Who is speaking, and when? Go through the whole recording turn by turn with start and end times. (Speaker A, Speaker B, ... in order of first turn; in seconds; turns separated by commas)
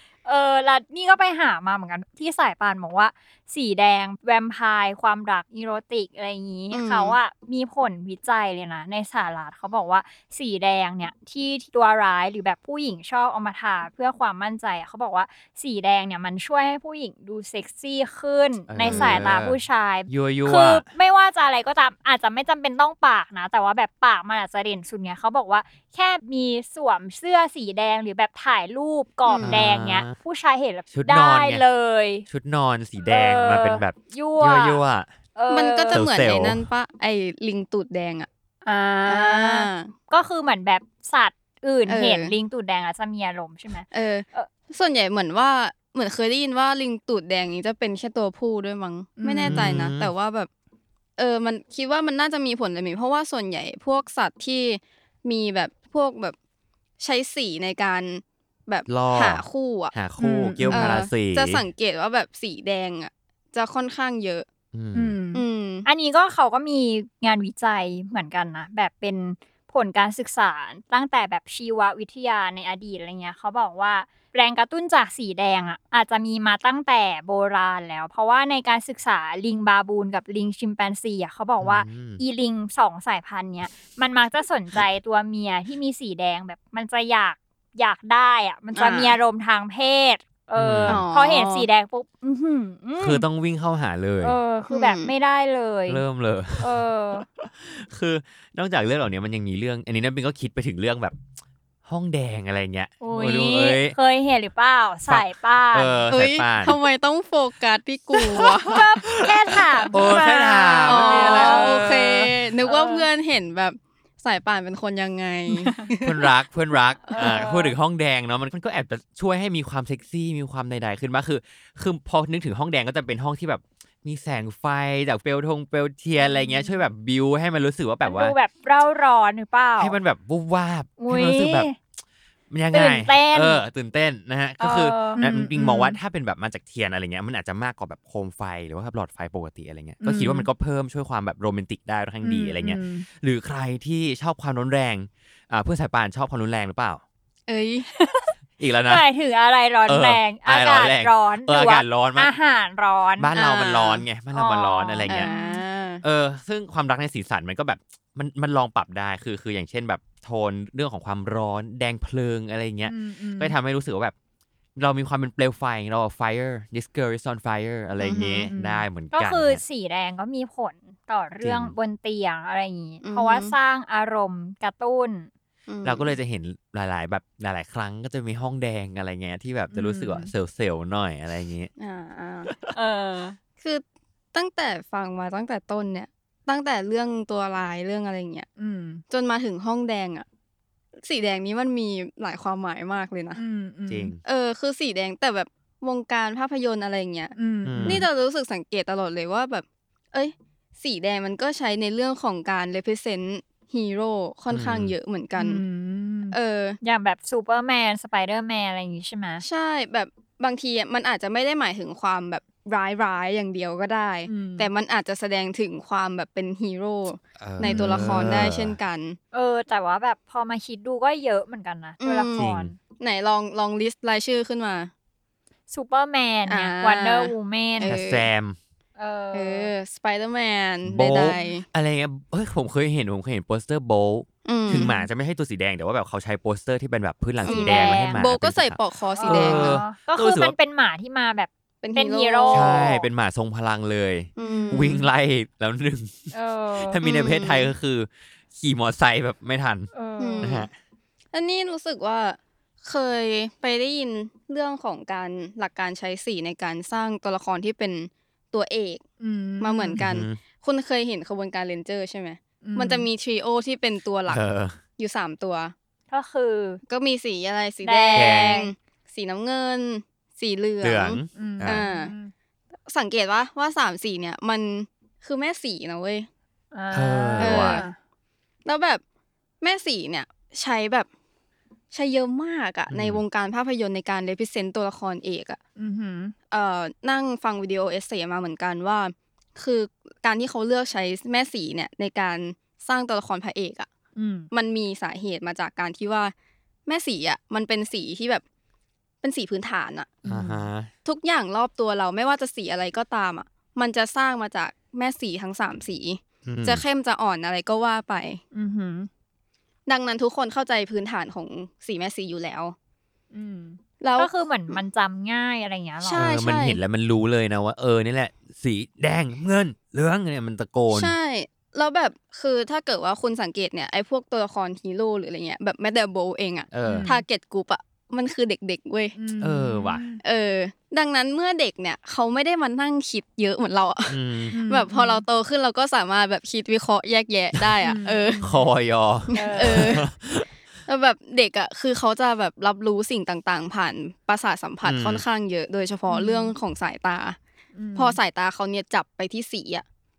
Speaker A: 0.2-32.2, Speaker B: 6.7-7.2, Speaker C: 18.7-19.6, Speaker B: 18.8-19.2, Speaker C: 20.1-20.8, Speaker B: 29.3-29.6, Speaker C: 29.4-30.1, Speaker C: 30.9-31.6, Speaker C: 32.3-35.1, Speaker A: 33.0-34.8, Speaker A: 35.3-36.0, Speaker B: 35.5-38.3, Speaker C: 35.9-36.6, Speaker A: 38.6-44.5, Speaker B: 39.0-39.9, Speaker B: 41.9-42.3, Speaker B: 43.9-50.5, Speaker D: 49.2-49.8, Speaker C: 49.4-50.1, Speaker B: 51.2-56.4, Speaker B: 57.0-59.9, Speaker C: 58.9-61.6, Speaker D: 60.2-61.0, Speaker B: 60.7-64.5, Speaker C: 64.7-65.2, Speaker D: 64.9-65.4, Speaker B: 65.3-65.8, Speaker A: 65.8-93.2, Speaker C: 81.6-82.2, Speaker B: 88.8-89.2, Speaker C: 90.5-91.0, Speaker B: 90.9-91.7, Speaker C: 93.0-94.4, Speaker A: 94.2-96.0, Speaker B: 94.7-95.1, Speaker C: 95.9-96.8, Speaker A: 96.6-97.2, Speaker C: 97.4-101.2, Speaker C: 101.8-103.9, Speaker A: 103.0-106.0, Speaker C: 105.1-106.8, Speaker B: 106.1-108.8, Speaker A: 108.4-112.0, Speaker C: 108.7-112.2, Speaker B: 110.8-116.2, Speaker A: 112.7-113.0, Speaker D: 115.6-115.9, Speaker C: 116.0-128.3, Speaker A: 117.1-117.7, Speaker D: 117.1-117.6, Speaker A: 128.0-129.9, Speaker C: 129.8-131.7, Speaker A: 131.0-131.8, Speaker C: 132.5-147.0, Speaker A: 132.7-133.6, Speaker A: 134.6-135.2, Speaker D: 135.0-136.0, Speaker D: 140.0-140.5, Speaker D: 142.2-143.1, Speaker B: 147.5-147.9, Speaker A: 147.9-148.3, Speaker C: 148.6-149.1, Speaker A: 148.9-153.3, Speaker C: 149.9-152.3, Speaker C: 153.2-155.3, Speaker B: 153.3-154.0, Speaker A: 154.3-155.6, Speaker B: 155.1-156.0, Speaker C: 156.0-164.1, Speaker D: 162.9-163.5, Speaker C: 164.8-169.6, Speaker B: 168.0-168.5, Speaker D: 168.1-168.8, Speaker A: 169.1-175.3, Speaker C: 171.4-171.7, Speaker B: 173.0-173.5, Speaker B: 175.7-176.1, Speaker C: 175.8-181.7, Speaker D: 179.7-180.3, Speaker B: 181.8-182.5, Speaker A: 182.8-183.4, Speaker B: 183.6-188.5, Speaker D: 188.6-189.0, Speaker B: 189.1-190.2, Speaker B: 191.0-193.4, Speaker D: 193.3-194.1, Speaker C: 193.9-194.2, Speaker B: 194.2-205.6, Speaker D: 197.3-198.1, Speaker C: 197.6-198.1, Speaker C: 204.5-204.9, Speaker D: 205.4-206.4, Speaker B: 206.3-206.8, Speaker A: 206.8-209.4, Speaker B: 209.4-219.2, Speaker D: 214.3-214.7, Speaker C: 217.4-218.8, Speaker D: 217.7-218.1, Speaker A: 219.3-222.8, Speaker B: 222.0-224.9, Speaker C: 222.4-222.7, Speaker A: 225.7-227.9, Speaker B: 226.5-228.3, Speaker C: 227.8-228.6, Speaker A: 229.0-229.7, Speaker B: 229.3-231.6, Speaker C: 230.8-240.5, Speaker B: 234.4-234.9, Speaker B: 237.4-239.8, Speaker A: 237.4-238.3, Speaker A: 239.2-243.1, Speaker B: 241.8-242.9, Speaker C: 242.5-250.7, Speaker B: 244.4-245.0, Speaker D: 244.5-244.9, Speaker D: 246.3-247.0, Speaker B: 247.0-247.7, Speaker D: 249.9-250.5, Speaker B: 250.2-250.7, Speaker B: 251.3-259.0, Speaker D: 259.2-260.0, Speaker B: 259.6-264.4, Speaker C: 260.0-260.4, Speaker D: 262.6-263.1, Speaker C: 264.3-264.8, Speaker B: 265.0-265.7, Speaker A: 266.1-266.8, Speaker B: 266.9-272.1, Speaker A: 267.8-268.7, Speaker C: 268.1-268.6, Speaker C: 270.8-271.8, Speaker D: 271.3-272.3, Speaker B: 272.9-276.3, Speaker A: 276.7-277.9, Speaker C: 276.9-277.8, Speaker B: 277.4-277.9, Speaker B: 278.6-279.0, Speaker B: 279.6-281.1, Speaker B: 281.9-285.6, Speaker C: 282.9-283.2, Speaker D: 285.8-286.3, Speaker B: 286.5-293.9, Speaker D: 294.1-294.5, Speaker B: 294.5-296.3, Speaker B: 296.9-298.4, Speaker B: 299.2-300.1, Speaker D: 300.2-300.6, Speaker C: 300.2-300.9, Speaker B: 301.0-308.4, Speaker C: 306.4-306.8, Speaker D: 308.5-309.1, Speaker B: 309.9-312.8, Speaker D: 313.3-313.8, Speaker B: 314.0-314.8, Speaker A: 314.2-316.3, Speaker B: 316.0-316.8, Speaker C: 316.1-321.1, Speaker B: 320.9-329.1, Speaker C: 326.7-327.2, Speaker D: 326.8-327.2, Speaker D: 329.1-330.2, Speaker C: 329.4-330.0, Speaker B: 330.2-338.4, Speaker C: 334.1-334.5, Speaker D: 334.5-335.2, Speaker D: 337.8-338.5, Speaker C: 338.4-340.5, Speaker D: 339.3-340.0, Speaker B: 339.4-340.0, Speaker B: 340.9-347.4, Speaker C: 344.8-345.2, Speaker D: 346.1-346.5, Speaker D: 347.8-348.2, Speaker B: 347.9-349.9